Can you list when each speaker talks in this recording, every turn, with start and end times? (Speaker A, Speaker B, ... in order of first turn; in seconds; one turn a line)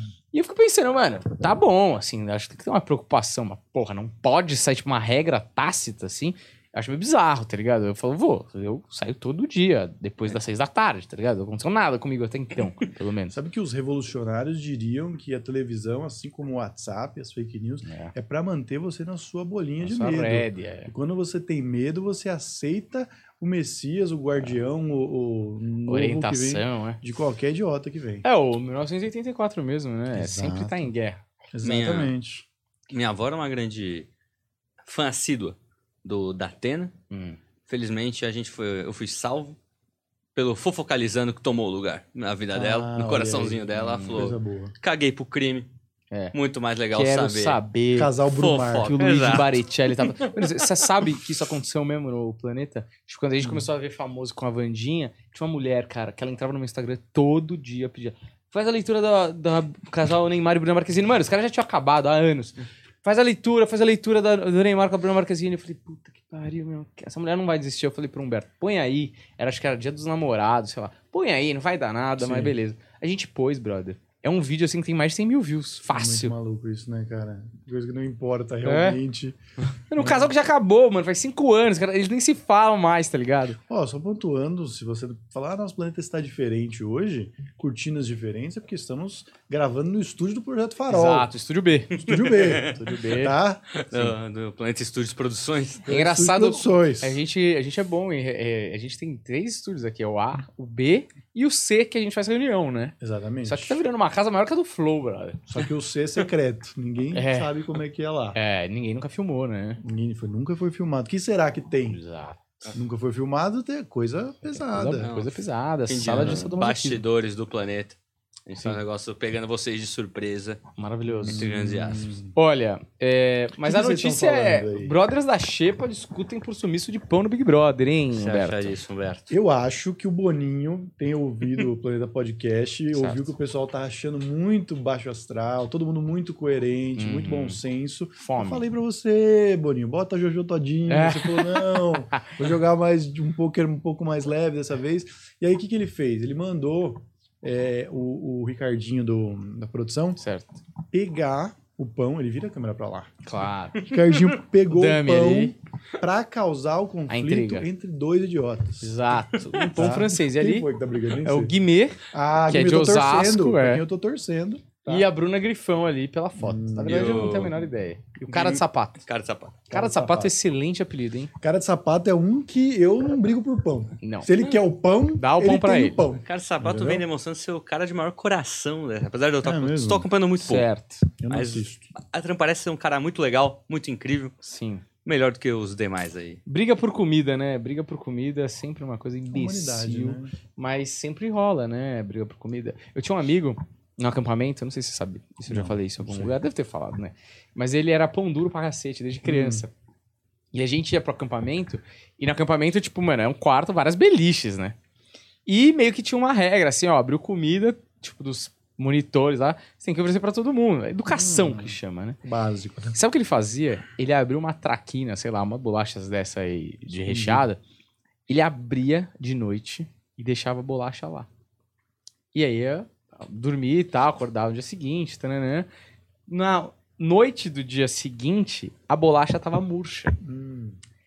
Speaker A: 0.3-13.4
Speaker B: 13.3-28.2
Speaker A: 17.9-18.1
Speaker A: 19.8-20.9
Speaker A: 25.9-27.0
Speaker A: 28.2-31.2
Speaker B: 30.1-30.9
Speaker B: 31.5-32.5
Speaker C: 31.6-32.1
Speaker C: 32.9-34.1
Speaker C: 34.8-37.0
Speaker A: 37.1-37.4
Speaker C: 37.7-39.6
Speaker C: 40.4-45.7
Speaker B: 42.5-44.7
Speaker A: 43.8-44.2
Speaker C: 46.3-47.6
Speaker A: 46.9-48.1
Speaker B: 48.0-49.0
Speaker C: 48.3-50.9
Speaker A: 48.9-76.3
Speaker B: 53.4-53.7
Speaker B: 72.2-72.5
Speaker B: 75.9-79.4
Speaker A: 78.7-79.0
Speaker A: 79.9-83.6
Speaker B: 80.0-80.3
Speaker B: 83.7-91.3
Speaker A: 90.9-93.4
Speaker C: 91.9-92.8
Speaker B: 92.0-94.2
Speaker C: 93.7-95.9
Speaker B: 95.9-97.2
Speaker A: 95.9-105.7
Speaker B: 103.0-103.8
Speaker B: 105.5-108.4
Speaker A: 107.2-107.5
Speaker A: 108.3-109.8
Speaker B: 109.8-112.0
Speaker A: 111.9-112.4
Speaker B: 112.7-115.1
Speaker A: 114.5-117.0
Speaker C: 115.0-120.6
Speaker B: 116.1-116.5
Speaker A: 120.8-121.5
Speaker B: 121.2-122.3
Speaker C: 121.2-122.2
Speaker A: 122.3-128.8
Speaker B: 123.6-125.0
Speaker C: 128.1-129.3
Speaker B: 129.3-150.2
Speaker A: 132.9-133.3
Speaker A: 137.0-137.6
Speaker A: 138.2-138.6
Speaker A: 140.9-142.3
Speaker A: 150.2-150.6
Speaker B: 150.9-153.1
Speaker A: 153.2-153.9
Speaker B: 153.8-158.9
Speaker A: 154.7-155.5
Speaker A: 157.1-157.7
Speaker A: 158.8-160.7
Speaker B: 159.7-161.5
Speaker A: 161.2-163.8
Speaker B: 162.1-165.1
Speaker A: 164.9-169.0
Speaker B: 166.4-167.4
Speaker C: 166.9-167.6
Speaker C: 168.3-169.6
Speaker B: 169.7-170.3
Speaker A: 169.7-171.3
Speaker B: 171.4-177.1
Speaker A: 174.0-174.3
Speaker A: 175.2-176.0
Speaker C: 176.2-180.7
Speaker B: 179.4-180.1
Speaker A: 180.4-181.1
Speaker B: 181.2-181.9
Speaker C: 181.3-184.3
Speaker A: 184.4-184.8
Speaker C: 185.0-186.4
Speaker A: 186.5-199.7
Speaker B: 189.3-190.3
Speaker B: 195.5-196.4
Speaker B: 199.2-199.7
Speaker A: 200.5-204.8
Speaker A: 205.5-212.2
Speaker B: 211.1-213.0
Speaker A: 212.9-217.6
Speaker B: 216.9-217.4
Speaker A: 218.3-221.3
Speaker A: 222.3-225.7
Speaker A: 226.3-230.2
Speaker B: 230.2-230.8